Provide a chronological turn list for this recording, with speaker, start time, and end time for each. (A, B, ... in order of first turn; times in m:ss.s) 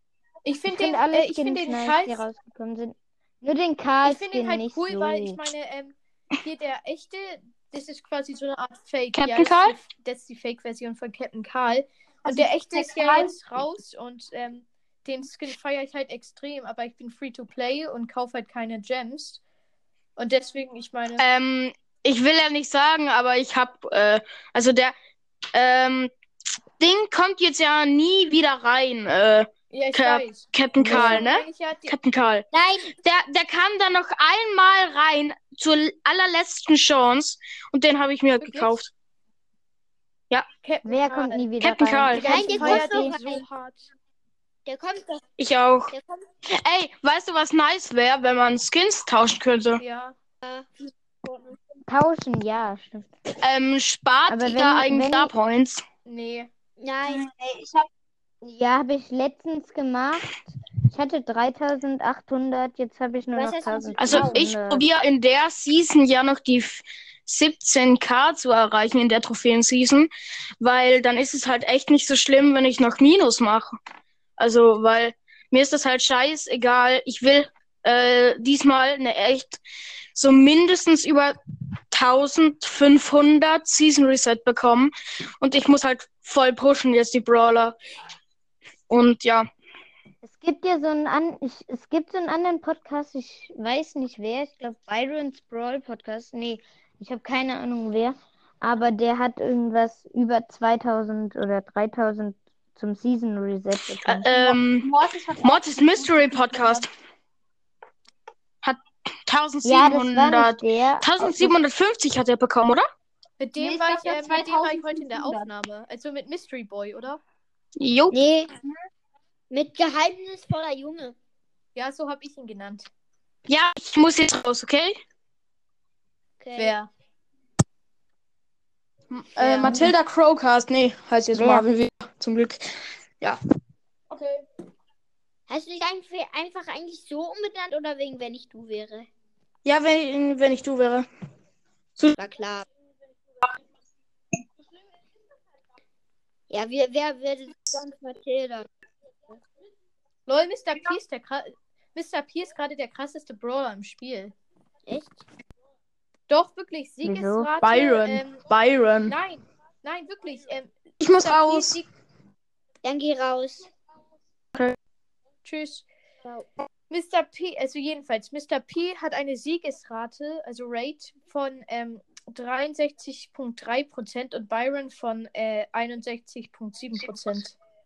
0:00.4-0:02.2 A
0:00.7-0:05.4 B
0:04.0-0:19.4 A
0:09.1-0:09.8 C
0:12.2-0:13.6 D
0:20.2-0:21.2 A
0:21.2-0:24.9 C
0:25.5-0:26.1 C
0:26.8-0:38.9 C
0:29.7-0:31.9 A
0:30.8-0:31.3 B
0:32.5-0:32.9 E
0:38.4-0:38.7 A
0:40.6-0:41.5 A
0:40.8-0:43.2 B
0:41.6-0:42.5 C
0:42.1-0:43.8 A
0:42.2-0:43.4 E
0:44.6-0:45.2 E
0:45.4-0:45.9 C
0:45.9-0:46.2 E
0:46.4-0:49.8 C
0:49.8-0:50.1 A
0:50.4-0:50.7 E
0:51.8-0:53.1 B
0:53.4-0:55.8 C
0:54.3-0:55.3 B
0:56.0-0:56.5 A
0:56.8-0:57.3 E
0:57.0-0:57.9 D
0:58.4-1:00.3 B
1:00.9-1:04.8 B
1:03.4-1:04.5 E
1:04.0-1:10.1 C
1:10.6-1:13.7 C
1:14.4-1:19.6 C
1:20.1-1:21.4 C
1:21.9-1:27.8 C
1:28.9-1:29.4 C
1:30.2-1:44.3 B
1:44.0-1:44.9 C
1:44.3-1:46.9 D
1:45.4-1:46.9 C
1:48.6-1:52.8 C
1:49.6-1:51.5 B
1:53.4-1:57.2 A
1:53.6-1:55.5 D
1:57.8-1:58.2 C
1:58.1-1:58.5 E
1:59.5-2:01.2 E
2:01.7-2:02.9 A
2:03.5-2:05.0 C
2:06.4-2:06.7 E
2:06.6-2:06.9 A
2:09.1-2:13.4 C
2:09.4-2:09.9 A
2:11.3-2:11.7 B
2:14.1-2:14.4 D
2:15.5-2:19.1 E
2:19.6-2:21.1 C
2:22.2-2:22.7 E
2:26.5-2:28.7 E
2:30.3-2:34.3 A
2:34.9-2:35.2 E
2:36.3-2:38.4 A
2:37.0-2:37.5 B
2:37.6-2:39.2 C
2:39.1-2:41.9 A
2:41.0-2:41.8 C
2:42.8-2:43.7 E
2:45.4-2:45.8 A
2:46.9-2:57.6 A